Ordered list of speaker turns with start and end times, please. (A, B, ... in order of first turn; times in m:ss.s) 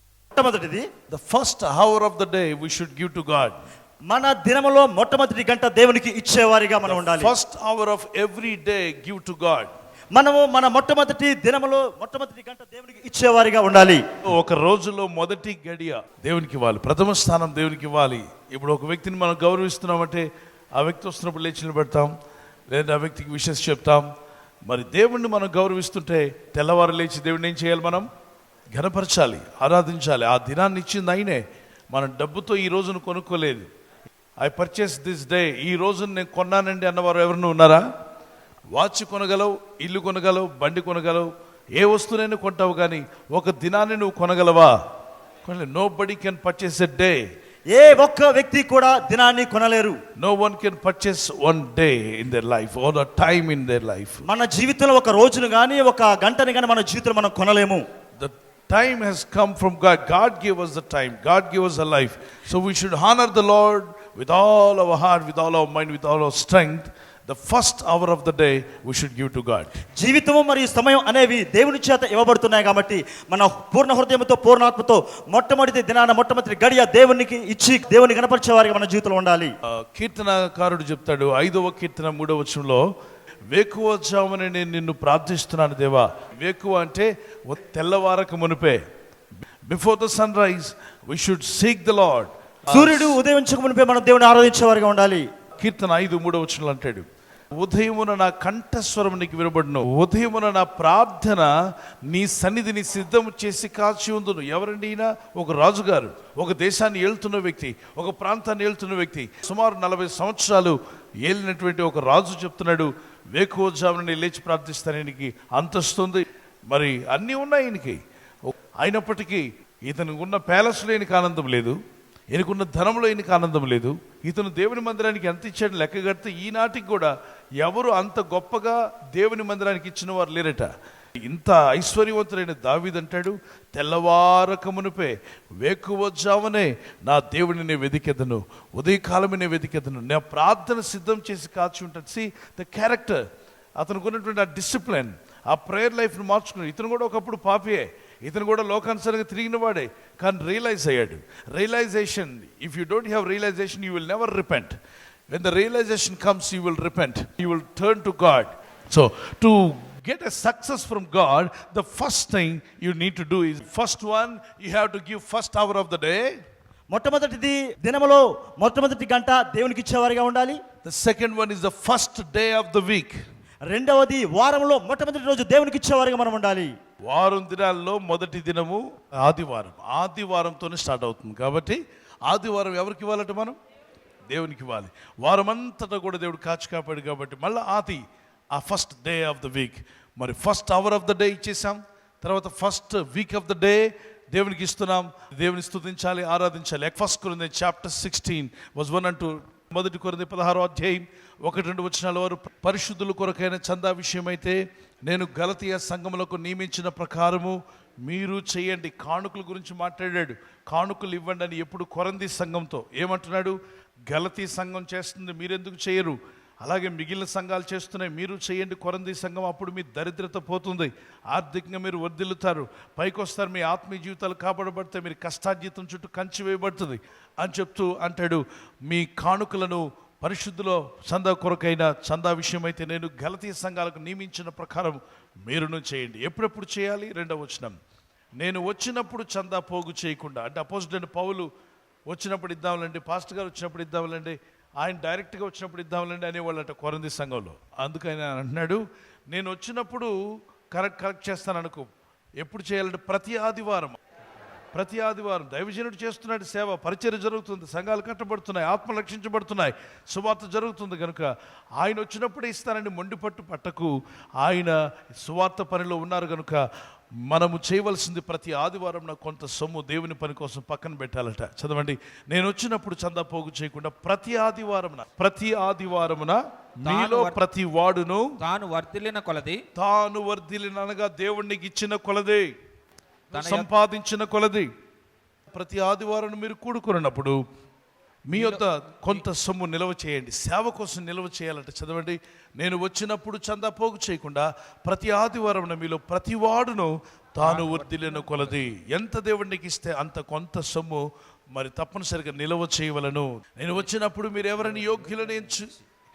0:00.3-0:00.9 A
0:01.1-0:03.6 B
0:04.1-0:07.3 A
0:06.9-0:09.7 B
0:10.2-0:14.0 A
0:14.2-0:22.1 B
0:22.7-0:24.1 B
0:24.7-0:28.1 B
0:28.7-0:33.7 B
0:34.4-0:37.8 B
0:38.7-0:44.7 B
0:45.4-0:47.2 B
0:47.7-0:50.0 A
0:50.2-0:54.2 B
0:54.3-0:57.8 A
0:58.2-1:09.7 B
1:10.0-1:19.5 A
1:19.7-1:22.8 B
1:23.5-1:28.8 B
1:29.7-1:33.2 B
1:32.7-1:35.2 A
1:35.6-1:37.1 B
1:37.6-1:41.5 B
1:42.1-2:01.8 B
2:02.3-2:10.7 B
2:11.2-2:23.2 B
2:23.8-2:34.8 B
2:35.3-2:46.3 B
2:46.9-2:50.6 A
2:50.8-2:53.2 B
2:53.7-2:56.7 A
2:57.0-3:03.6 B
3:04.3-3:33.6 B
3:34.1-3:57.8 B
3:58.4-4:01.5 B
4:02.1-4:10.1 B
4:10.7-4:11.9 B
4:12.4-4:14.0 B
4:14.7-4:26.6 B
4:27.2-4:38.4 B
4:36.8-4:37.4 C
4:38.4-4:39.6 C
4:39.8-4:42.5 B
4:43.3-4:43.7 C
4:43.3-4:44.7 B
4:45.5-4:47.4 B
4:48.3-5:05.7 B
4:48.3-4:49.2 C
4:57.4-4:58.7 C
5:04.6-5:05.8 C